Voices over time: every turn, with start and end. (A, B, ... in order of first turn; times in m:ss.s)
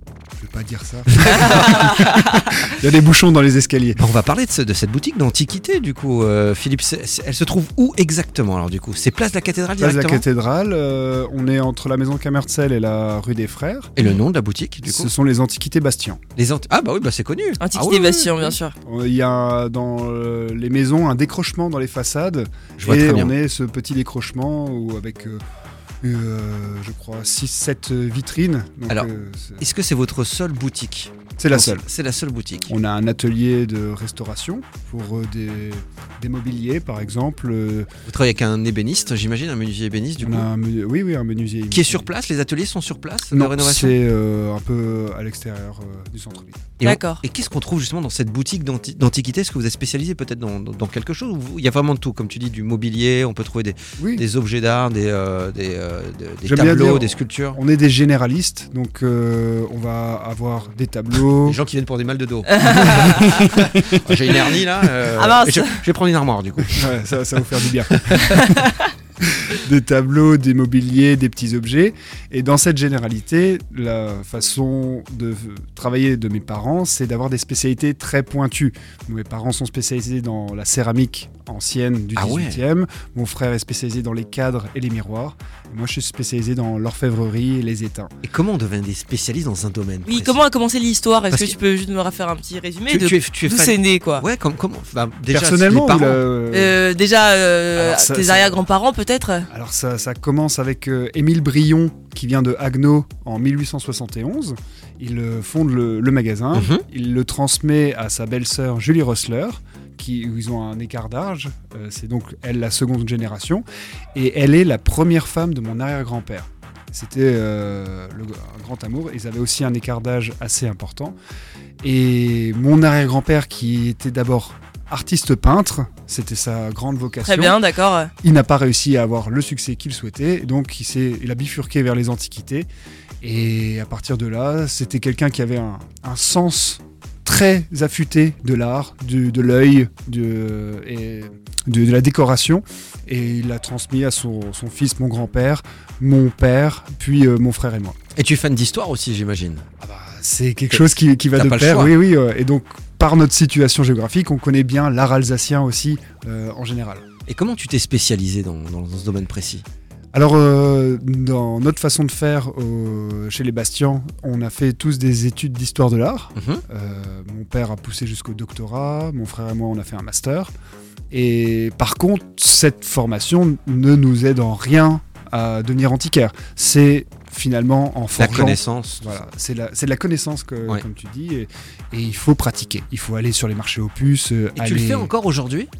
0:00.4-0:04.0 A
0:01.2-0:01.9 B
0:01.3-0:02.5 C
0:04.0-0:10.2 B
0:09.8-0:13.9 A
0:14.0-0:15.1 B
0:14.9-0:16.2 A
0:16.4-0:18.5 B
0:17.6-0:18.7 C
0:18.8-0:25.4 A
0:22.8-0:23.3 B
0:26.0-0:29.6 A
0:29.6-0:32.7 B
0:31.4-0:31.9 A
0:32.7-0:37.9 A
0:38.1-0:40.5 B
0:40.2-0:42.1 A
0:41.7-0:44.0 B
0:43.3-0:46.7 A
0:46.8-0:57.6 B
0:46.8-0:47.2 C
0:54.0-0:54.2 A
0:56.5-1:01.6 A
1:01.4-1:06.9 B
1:02.5-1:03.6 C
1:02.6-1:04.9 A
1:05.2-1:05.8 C
1:06.7-1:08.6 A
1:07.9-1:08.6 B
1:08.4-1:08.9 C
1:09.2-1:28.1 A
1:22.2-1:22.6 B
1:28.2-1:30.4 B
1:30.1-1:34.2 C
1:32.9-1:36.2 B
1:35.3-1:36.8 A
1:36.5-1:39.5 C
1:37.8-1:38.6 A
1:39.5-1:53.6 A
1:46.5-1:46.8 B
1:54.2-2:01.2 A
2:01.8-2:07.6 A
2:07.2-2:08.1 C
2:08.2-2:12.7 A
2:13.2-2:28.0 A
2:28.2-2:29.6 B
2:29.8-2:37.0 A
2:30.7-2:32.0 B
2:37.3-2:39.6 B
2:40.1-2:50.5 A
2:46.4-2:46.6 B
2:51.1-3:05.1 A
2:58.2-2:59.2 B
3:04.6-3:05.7 B